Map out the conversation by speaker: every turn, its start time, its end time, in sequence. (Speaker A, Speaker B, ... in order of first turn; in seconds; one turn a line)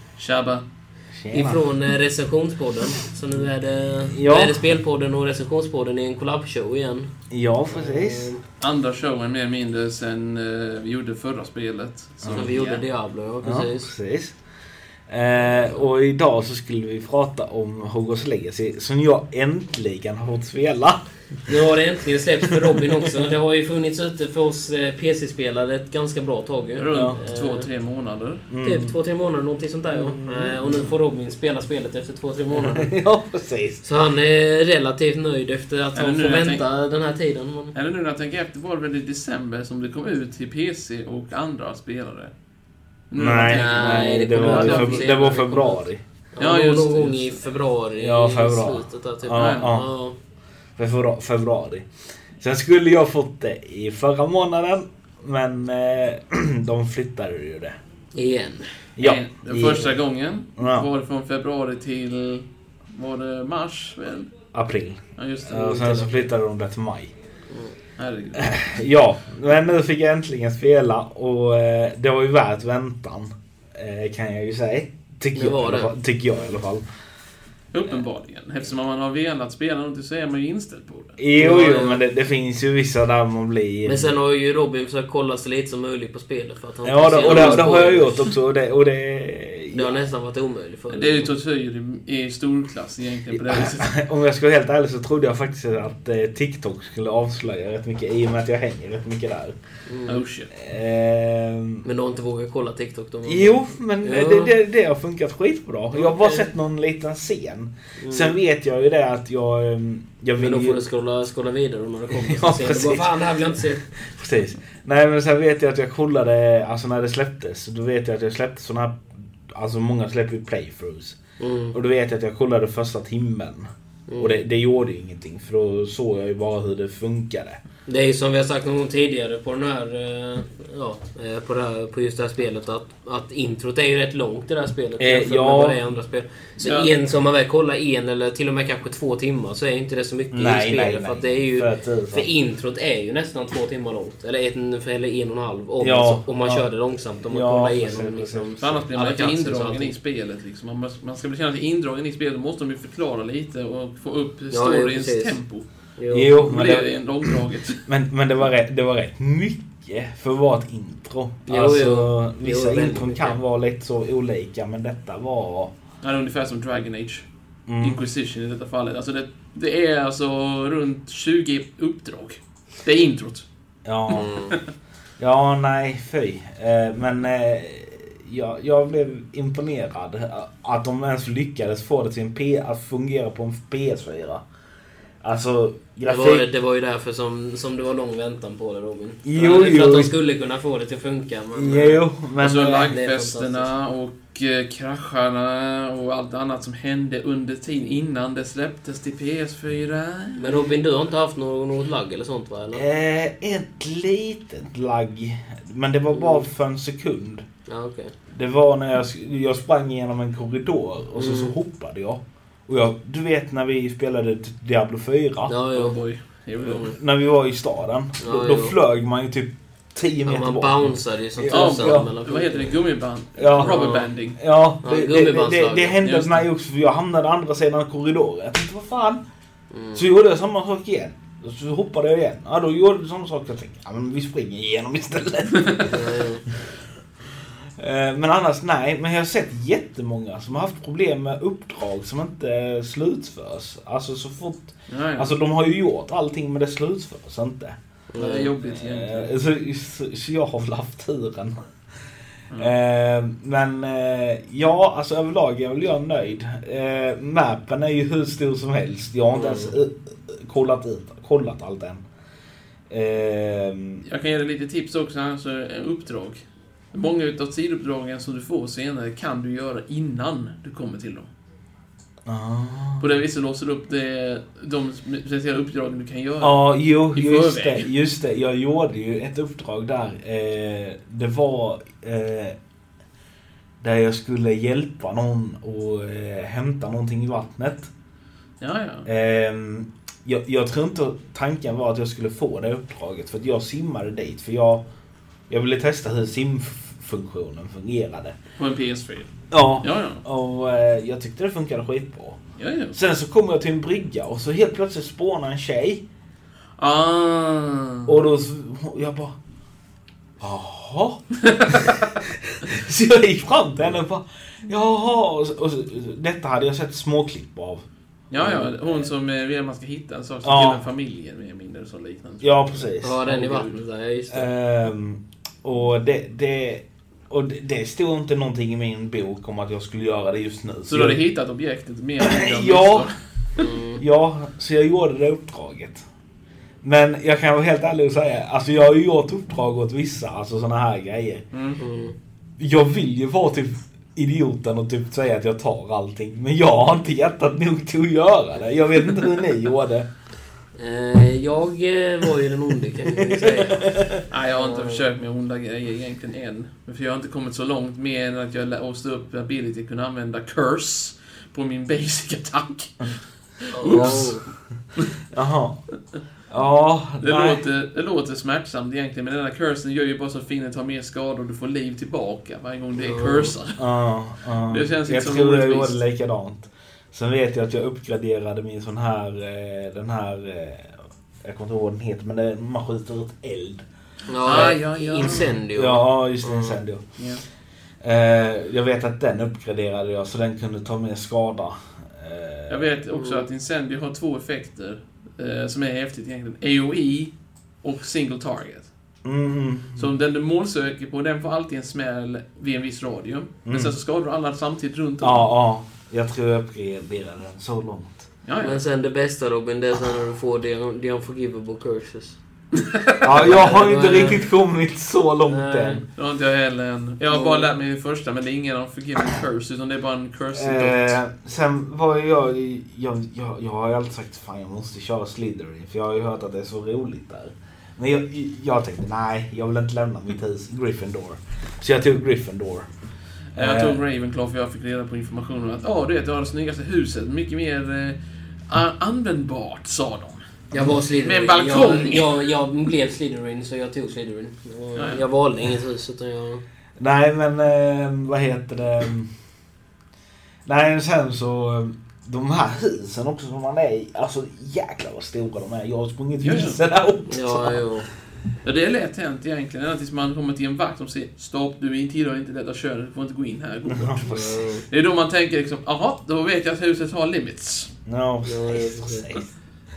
Speaker A: 0.2-0.7
Speaker B: 1.1-1.7
Speaker C: 1.3-7.1
Speaker B: 4.1-4.6
Speaker B: 7.3-8.3
Speaker C: 7.7-8.4
Speaker A: 8.6-12.8
Speaker B: 12.2-12.5
Speaker C: 12.2-13.9
Speaker B: 13.4-14.3
Speaker B: 15.1-21.5
Speaker C: 15.4-15.8
Speaker C: 21.5-27.7
Speaker A: 26.8-28.4
Speaker B: 26.9-27.2
Speaker B: 28.5-28.9
Speaker C: 28.6-32.9
Speaker B: 29.9-30.9
Speaker B: 32.5-33.8
Speaker C: 33.8-37.8
Speaker A: 35.9-36.6
Speaker A: 37.7-42.3
Speaker A: 43.1-45.3
Speaker B: 43.1-46.0
Speaker C: 43.5-50.1
Speaker A: 46.4-47.5
Speaker B: 48.0-49.9
Speaker A: 49.3-49.7
Speaker B: 50.8-51.9
Speaker B: 52.4-57.8
Speaker C: 58.1-58.6
Speaker B: 59.0-60.0
Speaker A: 59.0-64.3
Speaker B: 60.6-60.9
Speaker B: 64.5-67.1
Speaker A: 65.2-65.9
Speaker C: 65.7-66.3
Speaker A: 68.0-68.7
Speaker B: 68.3-76.8
Speaker C: 75.3-75.9
Speaker A: 77.7-81.2
Speaker B: 81.2-84.1
Speaker C: 81.3-82.0
Speaker C: 83.8-88.3
Speaker B: 86.8-90.1
Speaker A: 87.2-87.9
Speaker C: 89.7-91.3
Speaker A: 90.9-93.9
Speaker B: 93.3-99.6
Speaker C: 99.8-100.2
Speaker A: 100.1-100.5
Speaker B: 100.5-101.8
Speaker C: 101.8-104.6
Speaker B: 103.2-110.8
Speaker C: 105.9-106.5
Speaker C: 108.0-108.4
Speaker C: 110.4-113.9
Speaker B: 112.1-121.2
Speaker C: 121.4-121.8
Speaker B: 121.7-127.6
Speaker C: 124.1-124.4
Speaker C: 127.8-150.0
Speaker B: 135.0-135.8
Speaker A: 136.6-136.9
Speaker B: 140.3-142.3
Speaker B: 145.8-146.7
Speaker B: 147.2-148.8
Speaker A: 148.6-155.7
Speaker C: 154.5-155.4
Speaker C: 156.0-156.4
Speaker B: 156.1-157.3
Speaker A: 156.3-157.8
Speaker B: 157.9-165.7
Speaker C: 161.4-163.4
Speaker A: 166.0-167.2
Speaker B: 167.7-168.0
Speaker A: 167.8-173.4
Speaker B: 173.8-174.3
Speaker C: 174.1-174.6
Speaker A: 174.2-174.6
Speaker B: 175.2-184.4
Speaker B: 185.2-186.5
Speaker C: 186.0-192.0
Speaker B: 189.2-190.1
Speaker B: 191.5-192.9
Speaker A: 192.4-200.8
Speaker C: 192.8-193.7
Speaker C: 200.3-202.8
Speaker B: 202.7-207.4
Speaker C: 206.1-206.4
Speaker C: 207.7-208.1
Speaker B: 208.3-215.5
Speaker C: 211.2-211.5
Speaker C: 215.5-216.0
Speaker A: 215.7-216.9
Speaker B: 216.7-220.8
Speaker C: 218.2-218.8
Speaker C: 220.2-222.8
Speaker B: 221.4-222.1
Speaker A: 221.5-224.4
Speaker B: 223.4-229.2
Speaker C: 223.6-224.1
Speaker C: 224.8-226.0
Speaker A: 226.0-226.5
Speaker C: 229.7-230.0
Speaker B: 229.9-236.2
Speaker C: 235.8-236.4
Speaker B: 237.8-247.8
Speaker A: 244.9-245.3
Speaker C: 248.1-248.5
Speaker A: 248.2-249.3
Speaker B: 248.7-251.6
Speaker B: 252.5-262.0
Speaker C: 259.3-259.8
Speaker B: 262.9-264.0
Speaker A: 264.0-266.4
Speaker A: 266.9-271.3
Speaker B: 272.2-273.1
Speaker A: 273.0-277.9
Speaker B: 276.4-282.5
Speaker B: 283.8-287.9
Speaker A: 288.6-289.1
Speaker B: 289.1-294.8
Speaker B: 295.5-298.4
Speaker A: 298.6-300.2
Speaker B: 299.5-302.4
Speaker A: 302.6-303.0
Speaker B: 302.9-306.0
Speaker A: 306.8-308.3
Speaker B: 308.1-309.4
Speaker B: 310.4-317.8
Speaker A: 311.6-311.9
Speaker A: 318.3-322.6
Speaker B: 318.4-319.0
Speaker B: 320.4-320.8
Speaker B: 322.4-323.2
Speaker C: 323.0-324.5
Speaker A: 323.2-323.7
Speaker B: 324.3-331.2
Speaker A: 330.9-333.2
Speaker B: 332.2-333.1
Speaker C: 333.6-334.0
Speaker B: 334.0-336.0
Speaker B: 336.8-341.4
Speaker A: 341.5-341.8
Speaker C: 341.8-342.1
Speaker B: 342.6-350.1
Speaker C: 350.8-355.1
Speaker B: 353.3-354.2
Speaker A: 354.3-364.4
Speaker C: 363.7-364.4
Speaker B: 363.9-364.4
Speaker B: 365.3-365.8
Speaker B: 366.5-367.6
Speaker A: 367.2-373.8
Speaker C: 373.0-373.5
Speaker B: 373.8-383.8
Speaker A: 374.7-376.0
Speaker C: 384.3-386.8
Speaker A: 384.4-385.6
Speaker B: 384.4-387.1
Speaker B: 388.0-392.9
Speaker A: 392.7-398.9
Speaker C: 393.1-393.5
Speaker B: 399.2-400.1
Speaker A: 399.9-405.5
Speaker B: 403.6-403.9
Speaker B: 405.2-408.3
Speaker A: 408.4-408.8
Speaker C: 408.6-412.4
Speaker A: 412.9-413.7
Speaker B: 413.2-416.0
Speaker C: 413.3-414.4
Speaker C: 415.5-416.0
Speaker A: 416.1-421.2
Speaker C: 417.3-417.7
Speaker B: 420.5-432.9
Speaker B: 433.6-434.0
Speaker A: 433.6-438.2
Speaker A: 438.7-440.4
Speaker C: 440.7-446.6
Speaker A: 441.2-442.3
Speaker A: 444.9-445.2
Speaker B: 447.0-449.3
Speaker B: 450.6-457.8
Speaker A: 456.4-456.8
Speaker C: 457.3-458.1
Speaker A: 458.6-464.3
Speaker B: 463.9-464.7
Speaker C: 464.2-464.8
Speaker A: 464.9-467.9
Speaker B: 468.1-469.5
Speaker C: 468.4-469.4